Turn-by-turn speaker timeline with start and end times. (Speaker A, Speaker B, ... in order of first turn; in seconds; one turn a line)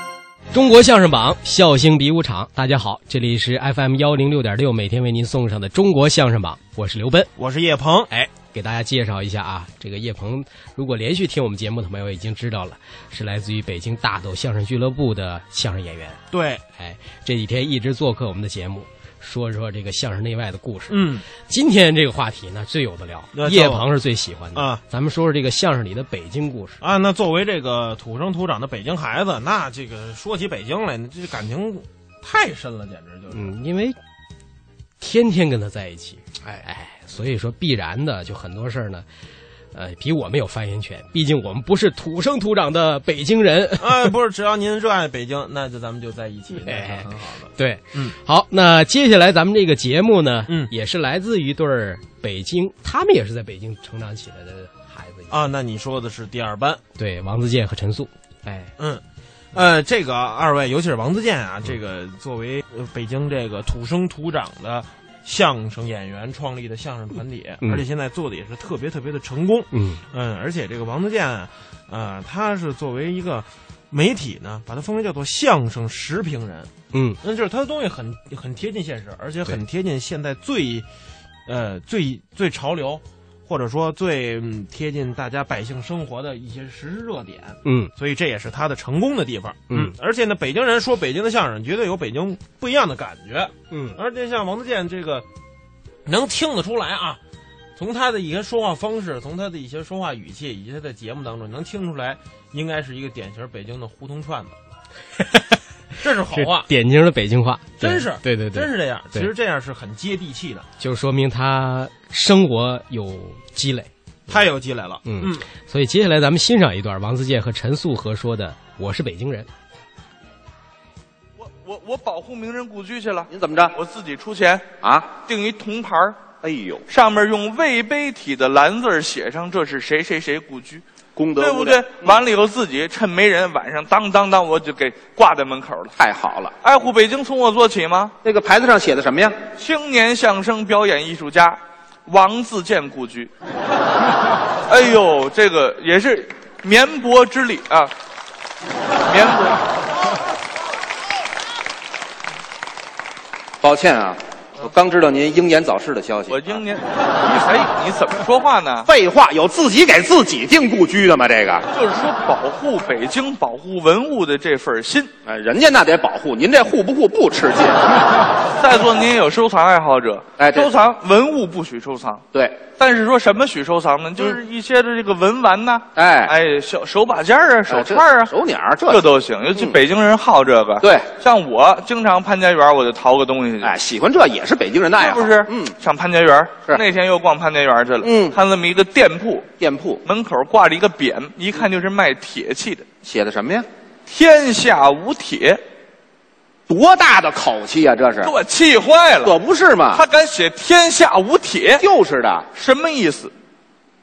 Speaker A: 0.5-7.3
Speaker B: 7.4-8.1
Speaker A: 8.1-16.2
Speaker B: 16.3-16.6
Speaker A: 16.8-26.8
Speaker B: 20.9-21.2
Speaker B: 23.3-23.9
Speaker B: 24.5-24.8
Speaker B: 26.8-33.5
Speaker A: 33.3-34.0
Speaker A: 35.0-39.0
Speaker A: 39.7-44.1
Speaker B: 43.8-48.1
Speaker A: 46.6-55.3
Speaker B: 55.3-56.8
Speaker A: 56.9-58.7
Speaker B: 58.8-59.0
Speaker B: 59.5-76.7
Speaker A: 69.7-70.0
Speaker A: 76.9-77.2
Speaker B: 77.2-80.9
Speaker B: 81.5-95.2
Speaker A: 87.6-87.9
Speaker A: 93.7-94.0
Speaker B: 96.0-97.2
Speaker B: 97.8-104.6
Speaker A: 105.2-105.4
Speaker B: 106.0-106.7
Speaker A: 106.3-109.3
Speaker B: 107.8-110.7
Speaker A: 110.8-114.5
Speaker B: 114.3-115.5
Speaker A: 115.0-119.5
Speaker C: 121.4-126.2
Speaker D: 123.3-123.7
Speaker D: 124.8-125.1
Speaker D: 126.4-126.8
Speaker C: 126.9-130.8
Speaker D: 131.2-132.2
Speaker C: 131.4-135.9
Speaker D: 136.0-136.5
Speaker C: 136.6-138.1
Speaker D: 138.2-139.3
Speaker C: 139.6-143.3
Speaker C: 144.7-147.9
Speaker C: 149.1-149.6
Speaker D: 153.6-156.4
Speaker C: 156.3-158.9
Speaker D: 158.8-161.7
Speaker C: 161.7-165.1
Speaker D: 165.2-168.0
Speaker C: 168.6-178.3
Speaker D: 170.4-170.7
Speaker D: 172.3-172.6
Speaker D: 175.9-176.3
Speaker D: 177.7-179.0
Speaker C: 178.9-183.8
Speaker D: 180.8-181.1
Speaker D: 183.6-185.7
Speaker C: 184.9-189.5
Speaker D: 188.0-188.3
Speaker D: 189.6-190.0
Speaker C: 190.0-192.8
Speaker D: 193.0-193.7
Speaker C: 194.1-195.6
Speaker D: 196.7-198.3
Speaker C: 198.2-199.3
Speaker D: 199.2-200.0
Speaker C: 199.9-201.8
Speaker D: 201.8-202.4
Speaker C: 202.5-203.3